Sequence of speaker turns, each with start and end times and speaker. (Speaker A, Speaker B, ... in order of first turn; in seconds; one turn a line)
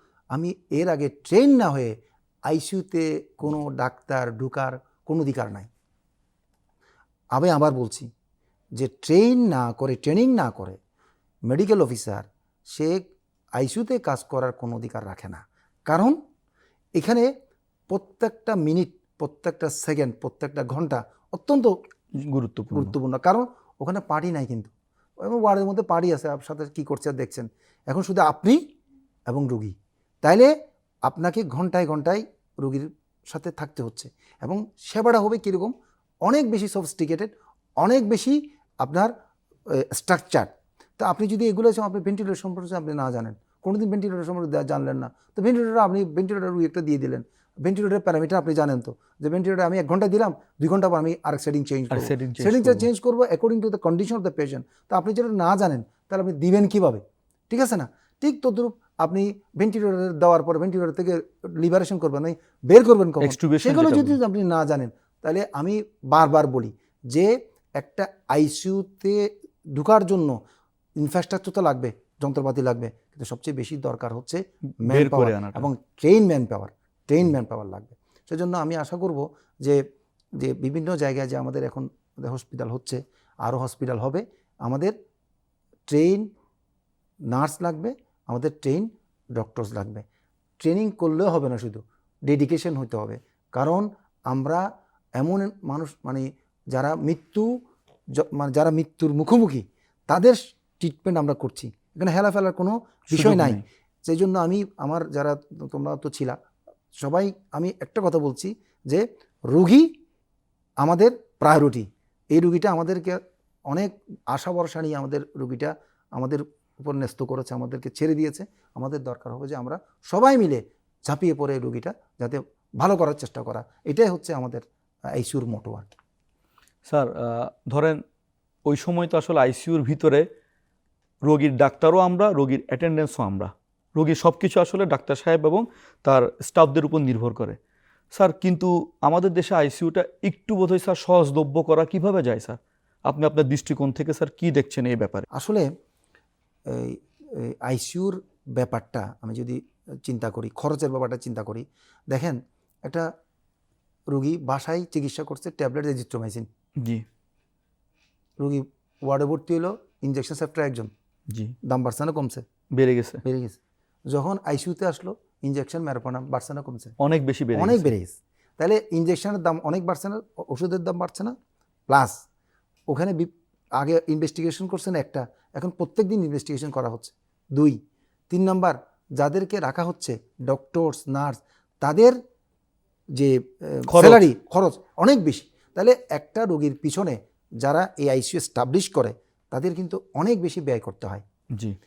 Speaker A: 0.3-5.7
Speaker A: 7.3-8.1
Speaker A: 8.8-10.8
Speaker A: 11.5-16.2
Speaker A: 17.0-17.3
Speaker A: 17.9-21.8
Speaker B: 22.1-22.9
Speaker A: 22.7-28.6
Speaker A: 29.3-30.5
Speaker A: 31.1-35.7
Speaker A: 36.2-39.1
Speaker A: 39.7-70.4
Speaker B: 51.9-52.9
Speaker B: 63.2-64.2
Speaker A: 71.0-79.8
Speaker B: 74.8-75.7
Speaker A: 80.4-84.9
Speaker A: 85.9-86.3
Speaker A: 87.3-90.0
Speaker A: 90.6-97.5
Speaker A: 98.1-106.4
Speaker B: 103.1-103.6
Speaker A: 107.0-109.9
Speaker A: 110.8-126.0
Speaker B: 126.9-128.0
Speaker B: 128.7-130.2
Speaker B: 131.2-137.6
Speaker B: 138.1-145.2
Speaker A: 145.3-145.7
Speaker A: 146.7-153.1
Speaker A: 154.1-156.5
Speaker B: 156.8-157.1
Speaker A: 158.4-160.9
Speaker B: 161.3-161.6
Speaker A: 161.6-162.4
Speaker B: 162.7-163.2
Speaker A: 163.2-163.6
Speaker A: 164.1-166.9
Speaker B: 167.0-167.9
Speaker A: 167.6-171.3
Speaker A: 171.9-172.2
Speaker A: 172.9-177.8
Speaker A: 178.3-182.2
Speaker A: 183.2-191.2
Speaker B: 183.9-184.3